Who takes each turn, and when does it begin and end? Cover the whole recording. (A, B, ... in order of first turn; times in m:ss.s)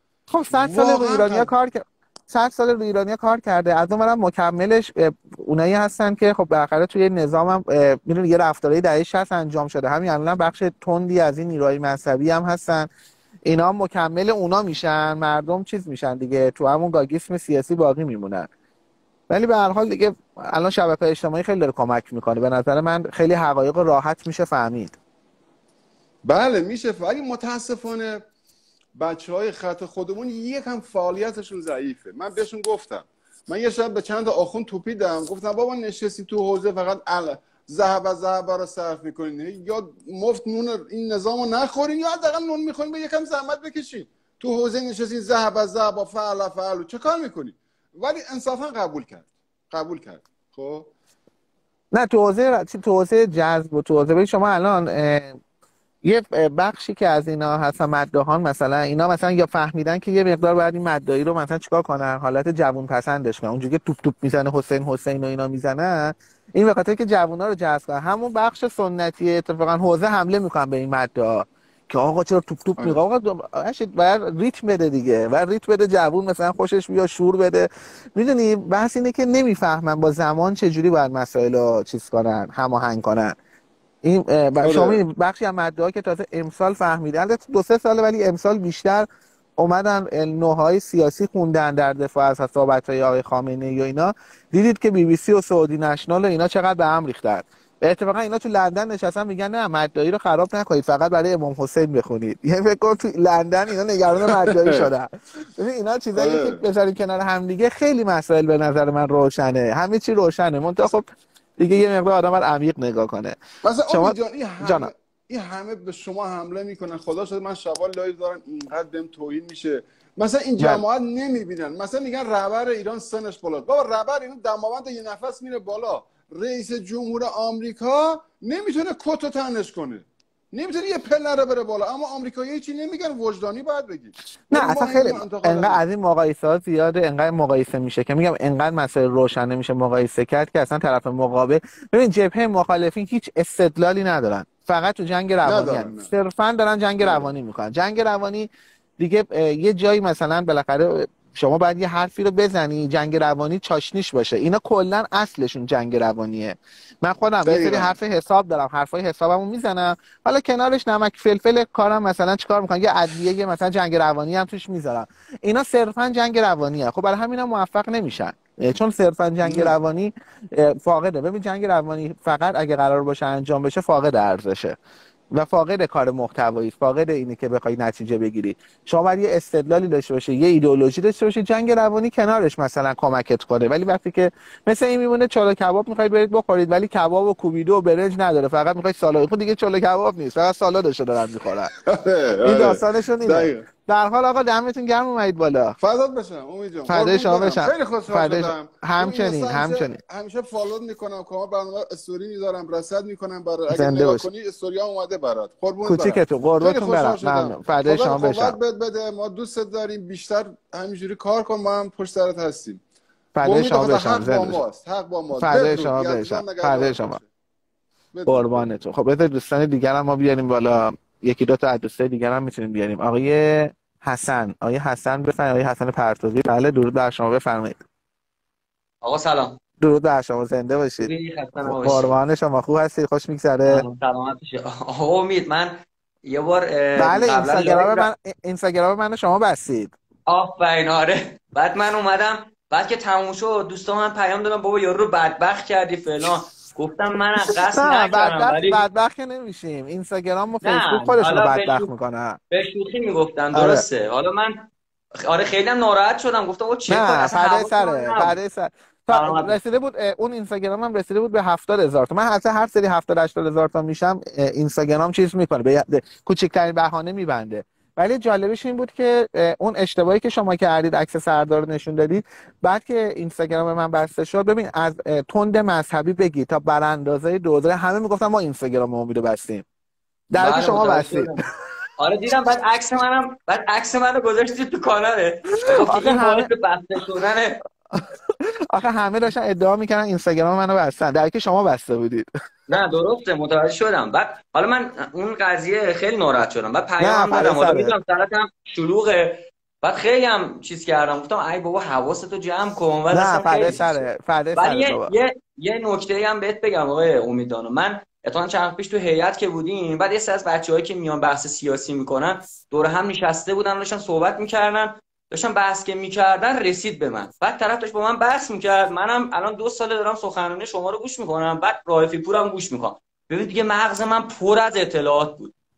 0:00.3-0:12.9 A
0:00.5-0:01.5 B
0:13.5-0:18.5 A
0:19.3-0:25.0 A
0:26.2-0:28.2 B
0:29.0-0:50.9 B
0:51.9-0:55.4 A
0:56.0-1:23.4 A
1:24.0-1:29.1 A
1:24.6-1:25.0 B
1:29.6-1:51.1 A
1:44.2-1:44.9 B
1:46.2-1:46.6 B
1:51.6-1:53.4 A
1:53.6-2:15.8 B
1:53.9-1:54.9 A
2:14.5-2:54.8 A
2:25.4-2:26.1 B
2:27.0-2:27.3 B
2:37.4-2:38.0 B
2:49.4-2:49.7 B
2:55.3-3:11.7 A
3:11.8-3:13.7 B
3:12.4-3:15.8 A
3:15.8-3:32.8 B
3:16.9-3:20.0 A
3:23.7-3:24.3 A
3:25.8-3:28.6 A
3:33.4-3:34.6 A
3:33.4-3:37.3 B
3:35.4-3:37.2 A
3:38.1-3:38.7 B
3:38.3-3:47.8 A
3:49.0-3:49.6 C
3:49.8-3:51.1 A
3:51.0-3:52.1 C
3:51.6-3:53.8 A
3:53.7-3:55.7 C
3:56.3-3:58.1 C
3:57.0-3:59.9 A
4:00.3-4:08.8 C
4:07.7-4:12.4 A
4:10.6-4:11.9 C
4:12.5-4:14.7 C
4:13.5-4:13.8 A
4:15.2-4:18.4 C
4:16.9-4:39.6 A
4:19.1-4:19.6 C
4:40.3-4:41.4 A
4:40.4-4:41.4 C
4:42.0-4:47.6 C
4:45.8-4:46.5 A
4:47.9-4:52.3 A
4:52.7-5:04.0 C
4:57.0-4:58.0 A
5:03.1-5:05.1 A
5:04.6-5:25.5 C